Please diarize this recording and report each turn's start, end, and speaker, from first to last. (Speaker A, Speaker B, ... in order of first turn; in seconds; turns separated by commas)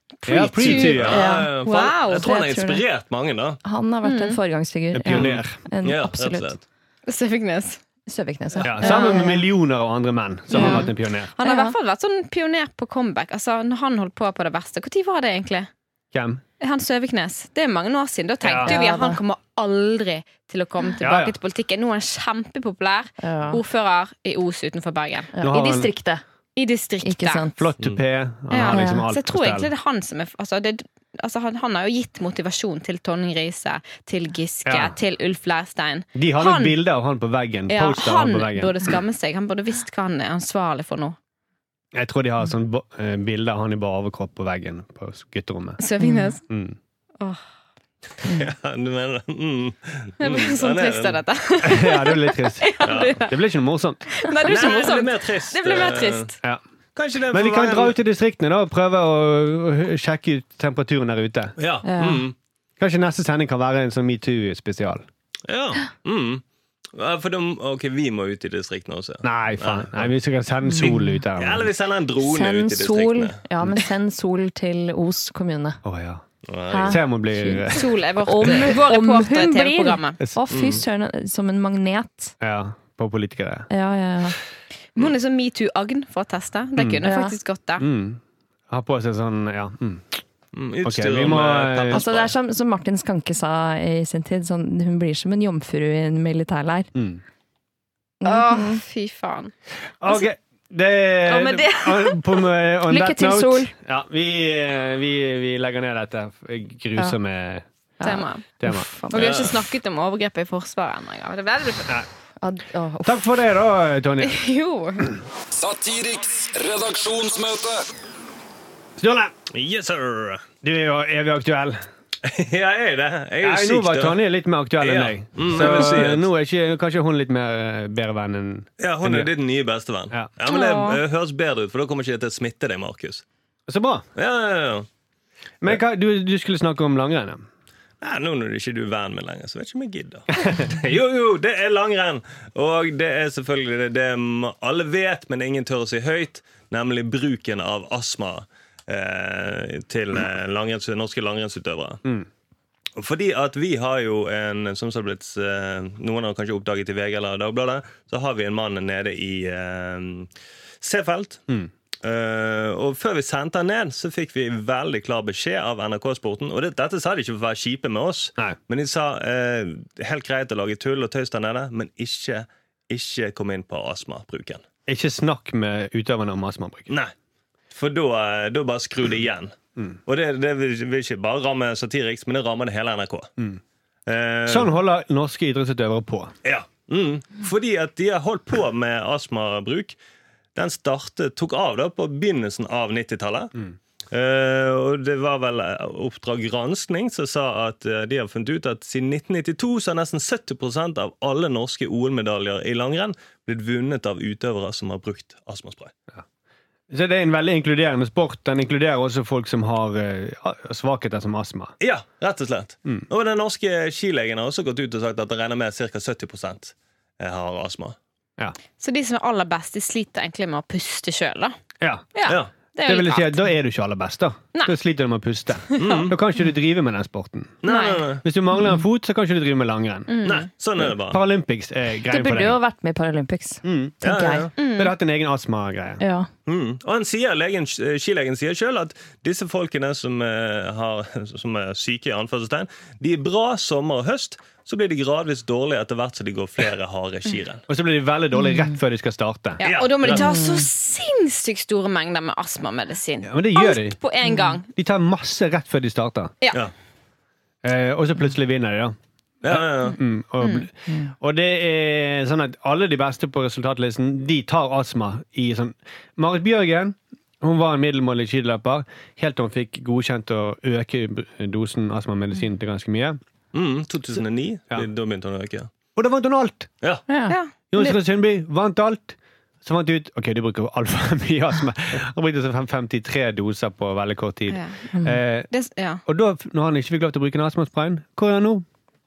Speaker A: 0.2-2.3, Speaker B: 0.3-1.3, Speaker C: 0.6-3.6, Speaker D: 1.1-1.5, Speaker D: 2.2-2.8, Speaker D: 3.6-6.6, Speaker A: 4.0-4.4, Speaker B: 4.9-5.6, Speaker C: 5.1-6.6, Speaker A: 7.1-7.8, Speaker D: 8.1-9.4, Speaker B: 8.6-11.3, Speaker A: 8.8-9.2, Speaker A: 10.5-15.7, Speaker D: 10.5-10.9, Speaker D: 11.4-11.8, Speaker B: 16.1-16.4, Speaker A: 16.6-25.3, Speaker B: 18.4-18.8, Speaker D: 18.6-19.2, Speaker B: 21.0-21.4, Speaker D: 23.2-23.6, Speaker D: 25.3-26.2, Speaker B: 25.4-25.9, Speaker A: 26.6-27.5, Speaker D: 27.0-27.7, Speaker B: 27.6-29.7, Speaker A: 28.5-36.8, Speaker D: 28.7-29.1, Speaker B: 34.7-35.0, Speaker B: 36.1-38.9, Speaker A: 37.7-41.2, Speaker B: 41.9-45.8, Speaker A: 45.8-46.4, Speaker D: 46.0-46.3, Speaker B: 46.5-46.8, Speaker C: 48.2-51.2, Speaker A: 50.2-53.4, Speaker B: 51.6-54.1, Speaker C: 52.8-53.2, Speaker A: 54.1-56.4, Speaker C: 54.4-56.3, Speaker C: 57.0-58.0, Speaker B: 57.3-61.6, Speaker C: 61.6-62.4, Speaker D: 61.8-62.3, Speaker B: 62.8-65.0, Speaker C: 65.5-70.1, Speaker B: 69.2-71.7, Speaker D: 70.7-71.2, Speaker C: 70.8-73.4, Speaker D: 72.2-75.8, Speaker B: 75.8-76.2, Speaker C: 76.5-77.0, Speaker D: 76.7-82.3, Speaker B: 76.8-78.0, Speaker A: 77.7-80.2, Speaker C: 80.5-80.8, Speaker B: 82.4-83.7, Speaker D: 83.7-84.4, Speaker A: 85.0-87.9, Speaker B: 86.8-87.1, Speaker D: 87.0-87.4, Speaker B: 87.8-90.2, Speaker C: 90.5-92.3, Speaker B: 90.8-92.0, Speaker D: 91.9-96.9, Speaker B: 97.0-97.2, Speaker D: 98.2-98.8, Speaker A: 98.2-99.5, Speaker B: 100.0-107.7, Speaker A: 101.3-102.4, Speaker D: 102.9-103.7, Speaker D: 108.0-109.4, Speaker A: 108.0-108.5, Speaker B: 108.6-108.9, Speaker A: 109.1-112.0, Speaker C: 109.1-109.6, Speaker D: 112.4-113.2, Speaker B: 113.0-114.4, Speaker A: 114.2-115.1, Speaker E: 115.5-117.8, Speaker B: 119.0-119.3, Speaker C: 119.5-120.5, Speaker B: 120.6-121.8, Speaker C: 122.2-124.2, Speaker B: 123.4-129.3, Speaker C: 124.8-126.3, Speaker C: 128.8-133.2, Speaker A: 130.5-131.0, Speaker B: 133.7-134.1, Speaker C: 134.2-134.9, Speaker B: 135.6-137.4, Speaker C: 138.0-152.0, Speaker C: 153.0-161.4, Speaker C: 162.0-174.6, Speaker B: 174.9-176.9, Speaker C: 177.7-183.3, Speaker C: 184.1-184.7, Speaker B: 184.5-186.3, Speaker C: 186.4-190.0, Speaker C: 190.6-193.5, Speaker C: 194.1-205.9, Speaker B: 206.9-211.8, Speaker C: 211.8-218.0, Speaker A: 218.8-221.6, Speaker B: 221.8-222.1, Speaker A: 222.2-223.4, Speaker B: 222.8-227.6, Speaker A: 225.7-226.1, Speaker C: 225.8-226.2, Speaker C: 227.6-228.2, Speaker A: 227.7-228.1, Speaker B: 228.2-230.1, Speaker D: 228.5-228.8, Speaker A: 230.1-230.5, Speaker C: 230.2-231.2, Speaker B: 230.8-232.6, Speaker D: 232.1-234.5, Speaker B: 233.6-234.0, Speaker C: 234.0-234.5, Speaker A: 234.6-234.9, Speaker B: 234.8-236.0, Speaker D: 236.0-236.3, Speaker C: 236.5-247.6, Speaker B: 247.7-249.6, Speaker D: 248.3-248.8, Speaker A: 249.6-254.7, Speaker C: 249.6-250.3, Speaker D: 250.1-250.7, Speaker B: 253.2-254.0, Speaker D: 254.3-254.6, Speaker B: 254.7-256.3, Speaker B: 257.6-258.9, Speaker C: 259.4-260.0, Speaker B: 259.5-273.2, Speaker A: 260.4-260.7, Speaker C: 273.5-275.7, Speaker B: 275.9-276.7, Speaker D: 277.1-277.4, Speaker A: 277.3-278.0, Speaker B: 277.7-285.5, Speaker A: 284.5-284.9, Speaker D: 284.9-285.2, Speaker A: 285.5-286.0, Speaker B: 286.1-288.6